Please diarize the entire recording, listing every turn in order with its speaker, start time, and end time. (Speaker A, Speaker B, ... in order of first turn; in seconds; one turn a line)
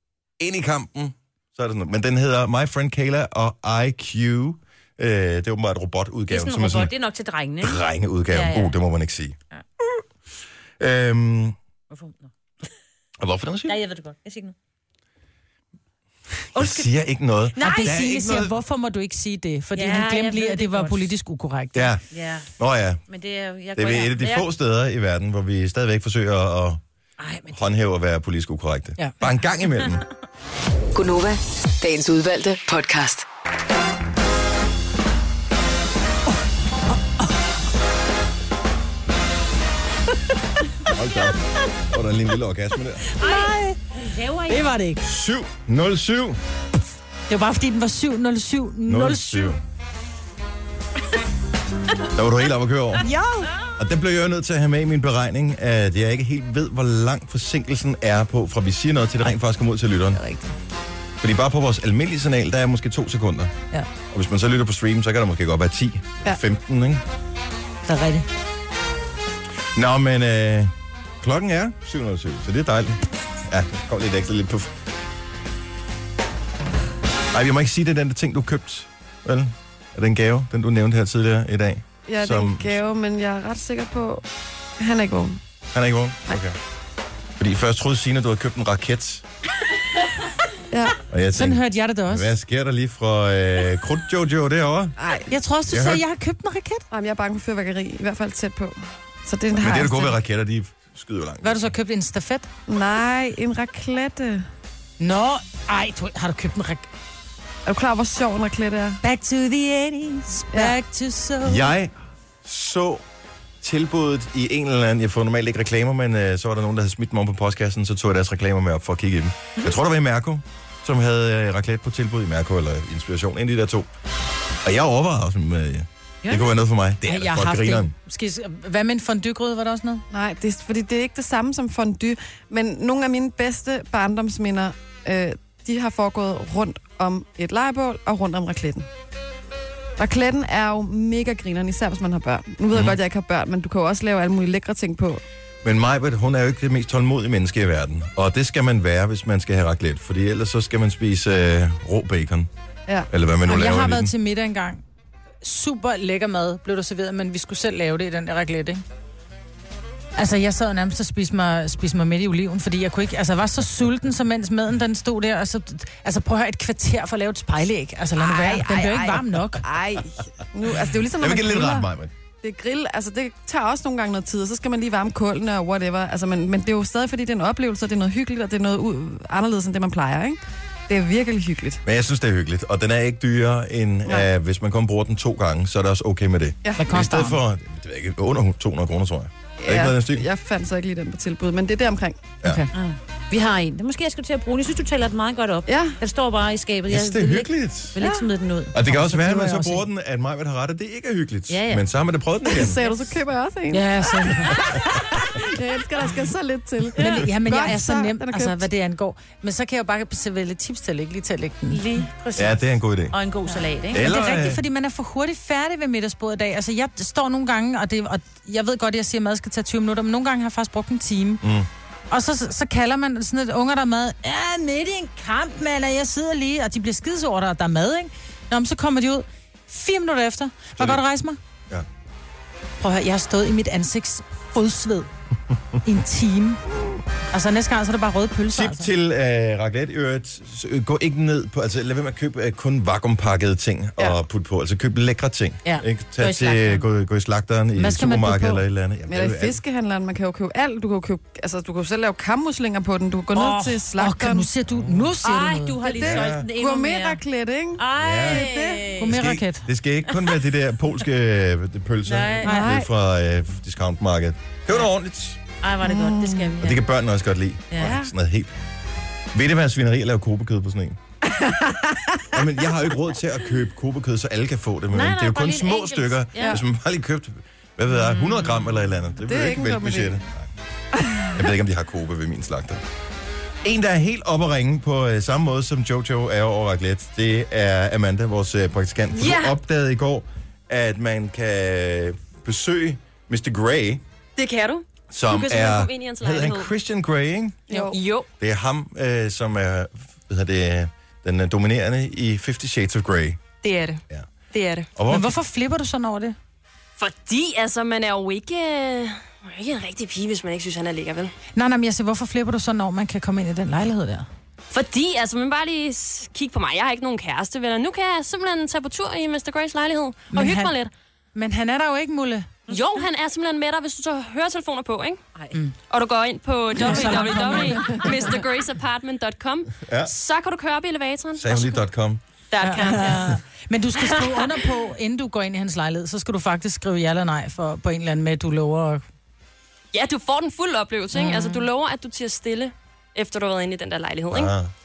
Speaker A: 0.4-6.9
Speaker B: 6.3-8.8
Speaker A: 7.6-10.0
Speaker A: 10.8-11.6
Speaker B: 11.9-12.3
Speaker A: 13.2-13.8
Speaker B: 13.7-14.6
Speaker A: 16.5-18.5
Speaker B: 16.6-16.9
Speaker B: 17.6-17.9
Speaker C: 17.6-21.9
Speaker B: 19.8-21.1
Speaker A: 21.8-22.0
Speaker B: 22.1-22.5
Speaker A: 22.6-23.0
Speaker B: 23.1-24.5
Speaker A: 23.8-26.8
Speaker B: 27.2-27.6
Speaker A: 27.5-30.0
Speaker D: 30.9-33.3
Speaker A: 40.9-43.1
Speaker C: 43.1-43.9
Speaker B: 43.2-44.7
Speaker C: 44.5-45.0
Speaker A: 45.0-46.4
Speaker C: 47.3-49.6
Speaker A: 48.9-49.6
Speaker A: 52.1-53.1
Speaker C: 53.0-53.5
Speaker A: 53.8-60.2
Speaker C: 60.1-60.5
Speaker A: 61.2-63.5
Speaker A: 64.1-67.0
Speaker C: 67.9-68.3
Speaker A: 69.8-74.8
Speaker A: 77.3-82.8
Speaker E: 82.1-84.2
Speaker E: 84.8-85.4
Speaker A: 85.7-86.6
Speaker A: 87.4-89.2
Speaker E: 90.7-91.0
Speaker A: 91.1-95.0
Speaker C: 91.3-92.3
Speaker E: 95.0-95.3
Speaker C: 95.3-96.8
Speaker A: 95.7-96.0
Speaker E: 96.9-100.1
Speaker A: 99.6-101.7
Speaker C: 101.4-102.5
Speaker E: 102.7-104.5
Speaker C: 105.0-106.9
Speaker E: 107.7-109.0
Speaker C: 109.0-111.7
Speaker A: 111.4-113.0
Speaker A: 113.6-123.9
Speaker A: 124.6-127.9
Speaker B: 126.2-126.5
Speaker C: 127.1-130.1
Speaker E: 130.1-138.9
Speaker E: 140.0-145.2
Speaker A: 142.7-143.0
Speaker A: 145.6-152.5
Speaker A: 153.1-154.1
Speaker C: 153.4-154.8
Speaker C: 155.4-158.8
Speaker C: 160.2-169.7
Speaker E: 168.2-171.9
Speaker A: 171.1-172.1
Speaker E: 172.4-181.8
Speaker A: 181.8-190.3
Speaker C: 186.8-187.4
Speaker E: 189.6-192.2
Speaker C: 192.4-192.7
Speaker B: 192.7-198.9
Speaker E: 195.7-196.0
Speaker A: 196.9-198.0
Speaker E: 198.0-198.2
Speaker A: 198.7-202.8
Speaker C: 198.9-199.8
Speaker B: 201.5-201.8
Speaker E: 202.5-203.9
Speaker B: 202.8-203.2
Speaker C: 203.7-204.6
Speaker E: 204.5-208.7
Speaker C: 207.0-212.3
Speaker B: 211.7-212.5
Speaker A: 212.4-213.2
Speaker B: 213.1-214.1
Speaker A: 213.9-214.6
Speaker C: 214.0-221.4
Speaker A: 221.4-221.7
Speaker C: 222.1-231.4
Speaker C: 232.8-235.1
Speaker C: 235.8-236.6
Speaker C: 237.3-238.9
Speaker A: 238.5-249.6
Speaker C: 245.7-246.8
Speaker C: 247.8-248.6
Speaker E: 249.1-254.5
Speaker C: 253.3-255.8
Speaker A: 254.7-255.2
Speaker B: 255.2-257.2
Speaker E: 255.8-259.0
Speaker A: 256.0-256.5
Speaker B: 257.8-259.1
Speaker A: 258.0-265.4
Speaker C: 259.0-259.7
Speaker B: 260.1-260.3
Speaker B: 262.1-262.6
Speaker E: 262.4-262.9
Speaker C: 262.4-262.7
Speaker B: 265.6-266.8
Speaker E: 265.8-266.6
Speaker A: 266.6-268.5
Speaker B: 267.7-268.0
Speaker A: 269.3-271.0
Speaker E: 271.3-272.3
Speaker A: 272.3-280.5
Speaker B: 274.9-276.6
Speaker B: 278.1-278.6
Speaker E: 279.2-280.2
Speaker E: 281.0-281.4
Speaker A: 281.3-282.8
Speaker A: 283.6-294.0
Speaker F: 289.1-289.6
Speaker F: 294.4-296.7
Speaker A: 295.1-297.7
Speaker E: 297.7-298.0
Speaker F: 297.9-298.3
Speaker A: 298.4-303.4
Speaker F: 303.6-304.9
Speaker A: 305.0-305.4
Speaker C: 305.1-306.4
Speaker F: 307.0-311.3
Speaker C: 311.6-314.3
Speaker F: 314.7-320.9
Speaker C: 320.3-320.7
Speaker C: 321.4-322.5
Speaker F: 322.7-325.2
Speaker F: 325.9-331.9
Speaker C: 326.8-328.2
Speaker A: 329.9-330.1
Speaker A: 331.4-332.2
Speaker F: 332.5-333.4
Speaker C: 332.6-339.0
Speaker F: 339.9-344.5
Speaker C: 341.1-341.6
Speaker A: 344.3-344.7